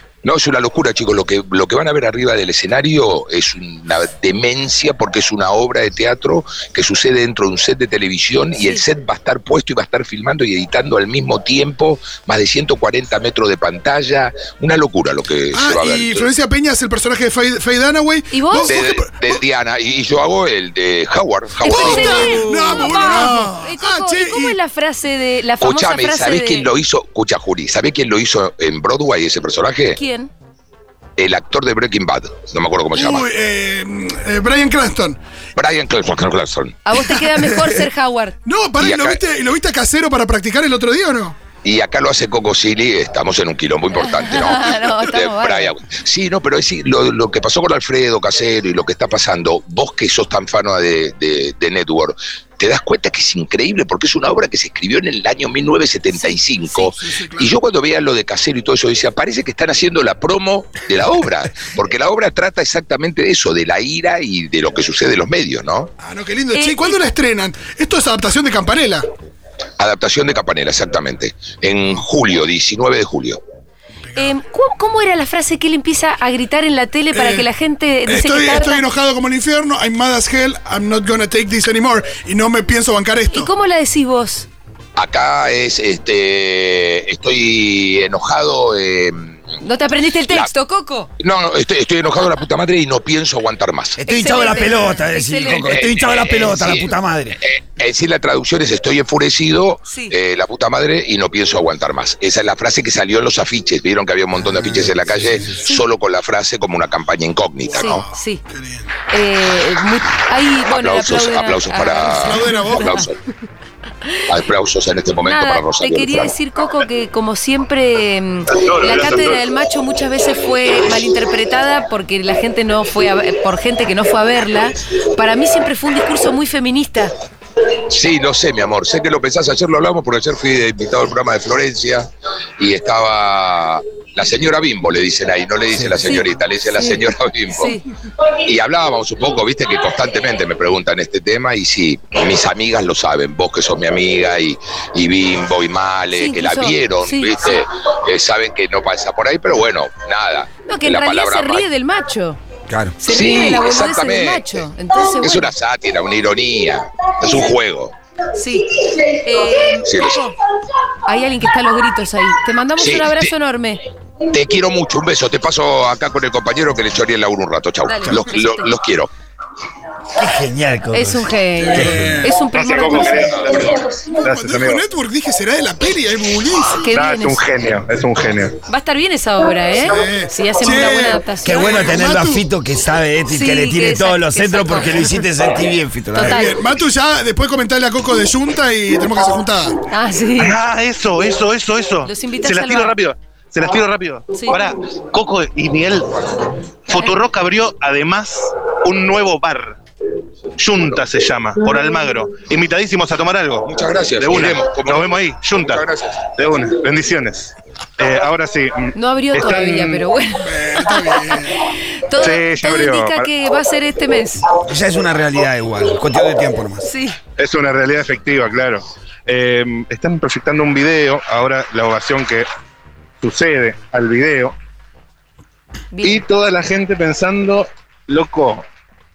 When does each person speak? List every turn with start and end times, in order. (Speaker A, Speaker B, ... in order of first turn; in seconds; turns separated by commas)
Speaker A: 0.2-16.3, Speaker B: 8.6-8.8, Speaker C: 15.5-19.2, Speaker B: 18.3-18.7, Speaker A: 18.7-22.7, Speaker B: 21.6-26.7, Speaker C: 21.6-24.6, Speaker A: 25.6-30.0, Speaker B: 29.9-30.3, Speaker A: 31.2-33.2, Speaker C: 33.0-35.2, Speaker A: 35.5-36.8, Speaker B: 36.9-38.4, Speaker C: 38.5-41.4, Speaker A: 38.8-39.2, Speaker A: 41.6-65.9, Speaker B: 43.9-45.7, Speaker B: 56.1-56.8, Speaker C: 57.0-57.5, Speaker C: 66.0-69.0, Speaker B: 66.5-67.0, Speaker A: 69.8-73.4, Speaker B: 74.2-78.8, Speaker C: 77.1-77.5, Speaker C: 78.0-83.5, Speaker B: 83.3-84.5, Speaker A: 85.0-89.6, Speaker B: 89.6-91.1, Speaker A: 91.2-94.0, Speaker D: 94.0-97.4, Speaker B: 94.0-95.8, Speaker A: 95.5-108.0, Speaker D: 104.4-105.5, Speaker C: 107.6-108.9, Speaker B: 107.7-108.4, Speaker B: 109.1-113.1, Speaker A: 110.7-113.2, Speaker C: 112.1-113.0, Speaker A: 114.3-116.3, Speaker B: 115.2-127.1, Speaker E: 118.5-119.4, Speaker A: 127.9-137.8, Speaker D: 135.7-136.1, Speaker B: 136.0-137.8, Speaker A: 138.4-151.7, Speaker B: 146.1-147.5, Speaker B: 150.7-152.4, Speaker D: 152.7-153.0, Speaker B: 153.0-155.5, Speaker A: 153.1-157.9, Speaker B: 158.3-160.3, Speaker A: 159.8-160.3, Speaker B: 161.0-163.8, Speaker A: 162.8-163.3, Speaker A: 164.3-169.1, Speaker B: 167.8-168.7, Speaker D: 170.2-172.2, Speaker B: 170.9-173.6, Speaker C: 171.6-172.4, Speaker E: 172.5-174.8, Speaker C: 174.2-176.9, Speaker B: 176.7-177.4, Speaker E: 176.9-178.5, Speaker B: 178.7-182.0, Speaker C: 179.8-182.4, Speaker D: 181.4-186.5, Speaker B: 183.3-185.0, Speaker B: 186.1-186.5, Speaker C: 186.2-189.7, Speaker B: 189.9-190.6, Speaker E: 190.4-199.8, Speaker B: 192.0-192.9, Speaker B: 194.3-194.6, Speaker E: 200.6-205.8, Speaker A: 203.6-206.2, Speaker E: 206.3-210.0, Speaker B: 208.9-214.6, Speaker C: 210.4-211.6, Speaker E: 212.2-213.3, Speaker D: 214.6-216.9, Speaker B: 216.8-217.2, Speaker E: 217.4-222.5, Speaker E: 223.2-224.5, Speaker B: 225.9-226.2, Speaker E: 226.0-228.6